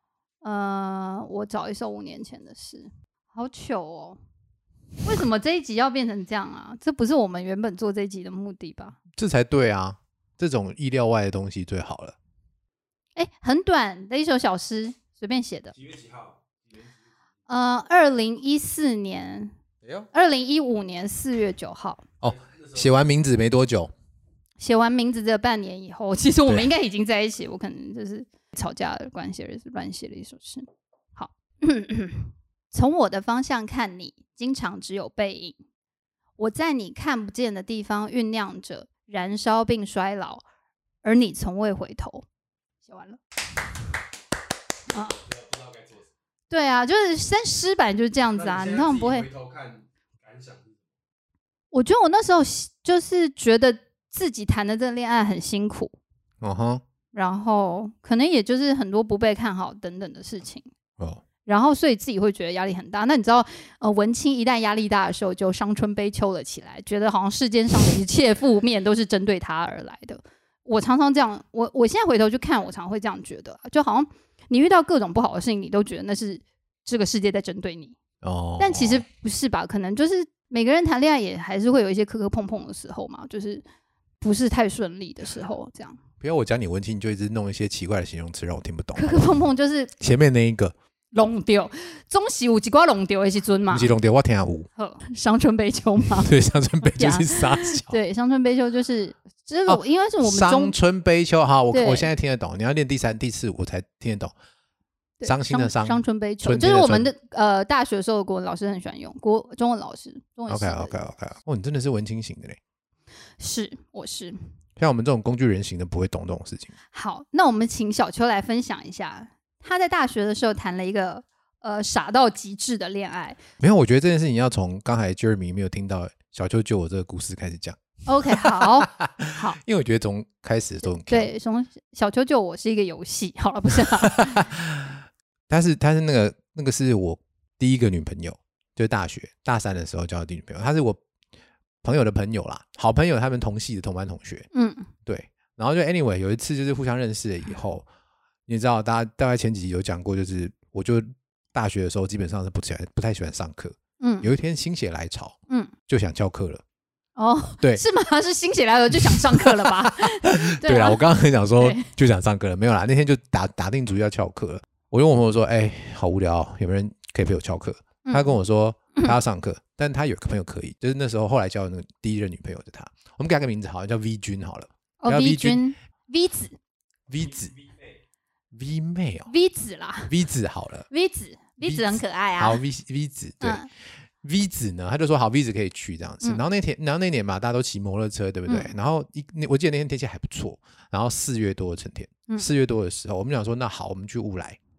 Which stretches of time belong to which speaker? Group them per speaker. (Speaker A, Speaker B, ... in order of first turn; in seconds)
Speaker A: 0.4-4.2, 5.0-9.0, 13.2-15.7, 17.5-19.5, 20.1-22.0, 24.6-35.6, 36.4-40.4, 41.0-42.2, 42.8-43.2, 44.9-45.2, 46.5-49.3, 51.7-55.9, 57.1-60.7, 61.4-78.0, 78.6-83.6, 84.2-86.0, 88.9-89.9, 91.1-93.9, 94.8-96.3, 96.9-100.7, 101.7-102.1, 105.2-110.9, 113.4-114.4, 116.9-123.4, 128.1-129.6, 131.0-134.5, 144.5-144.9, 154.0-154.3, 157.2-161.0, 161.6-161.9, 168.0-168.3, 175.0-176.6, 179.3-180.1, 180.9-182.6, 183.4-183.7, 188.5-188.7
Speaker B: 9.2-12.2, 22.2-23.9, 56.4-56.8, 78.2-79.0, 86.2-89.3, 90.0-90.7, 93.7-94.7, 96.2-98.0, 99.7-104.3, 105.2-107.1, 110.5-112.6, 114.8-116.7, 123.6-127.8, 128.3-131.3, 133.8-141.0, 141.8-144.5, 145.1-147.9, 148.5-155.3, 155.9-156.6, 158.9-175.6, 177.1-177.5, 178.5-179.3, 180.1-180.9, 181.6-183.6, 184.2-194.6
Speaker C: 15.7-16.9, 22.2-23.0, 45.2-46.1, 48.3-50.8, 177.2-178.0